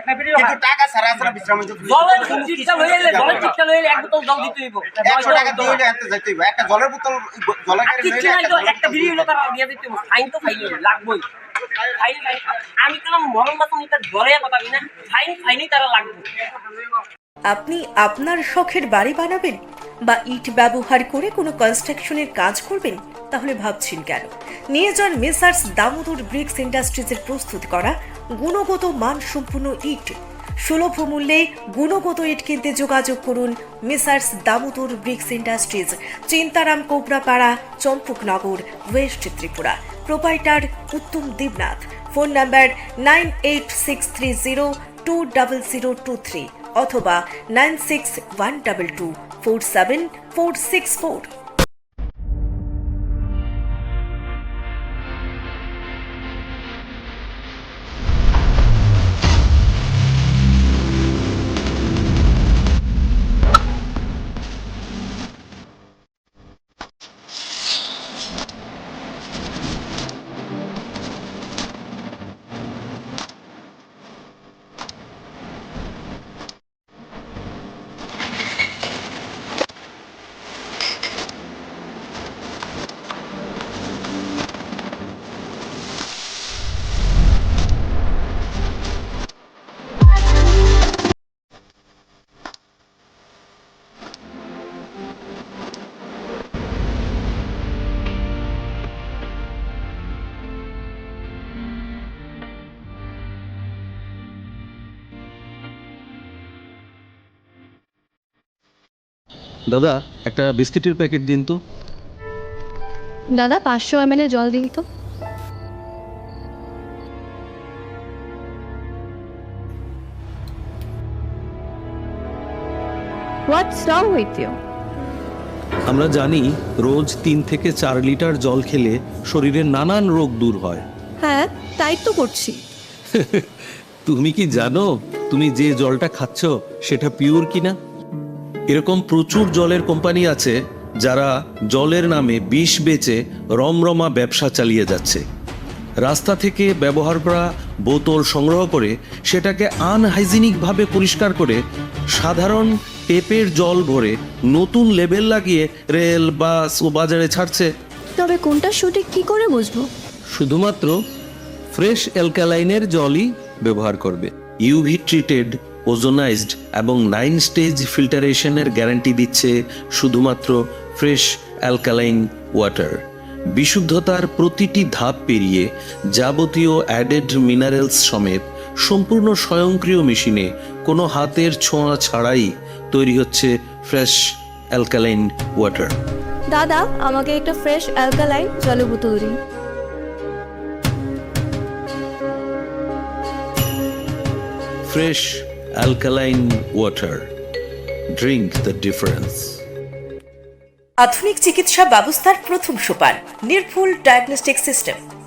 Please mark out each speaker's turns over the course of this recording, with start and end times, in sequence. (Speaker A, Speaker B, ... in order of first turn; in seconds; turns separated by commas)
Speaker A: 0.1-3.5, Speaker B: 1.9-5.8, Speaker A: 5.0-9.3, Speaker B: 7.8-11.2, Speaker B: 11.8-16.3, Speaker C: 17.5-51.3, Speaker D: 109.7-111.6, Speaker E: 113.3-114.9, Speaker E: 123.5-124.6, Speaker D: 125.9-130.8, Speaker E: 131.2-132.6, Speaker D: 133.1-137.8, Speaker D: 138.7-145.2, Speaker D: 146.0-151.6, Speaker D: 152.1-157.7, Speaker E: 158.2-159.9, Speaker D: 160.3-161.0, Speaker D: 161.7-173.0, Speaker D: 173.6-184.2, Speaker D: 184.7-186.0, Speaker E: 186.5-189.4, Speaker D: 194.9-197.3, Speaker D: 198.2-199.6, Speaker C: 201.0-205.0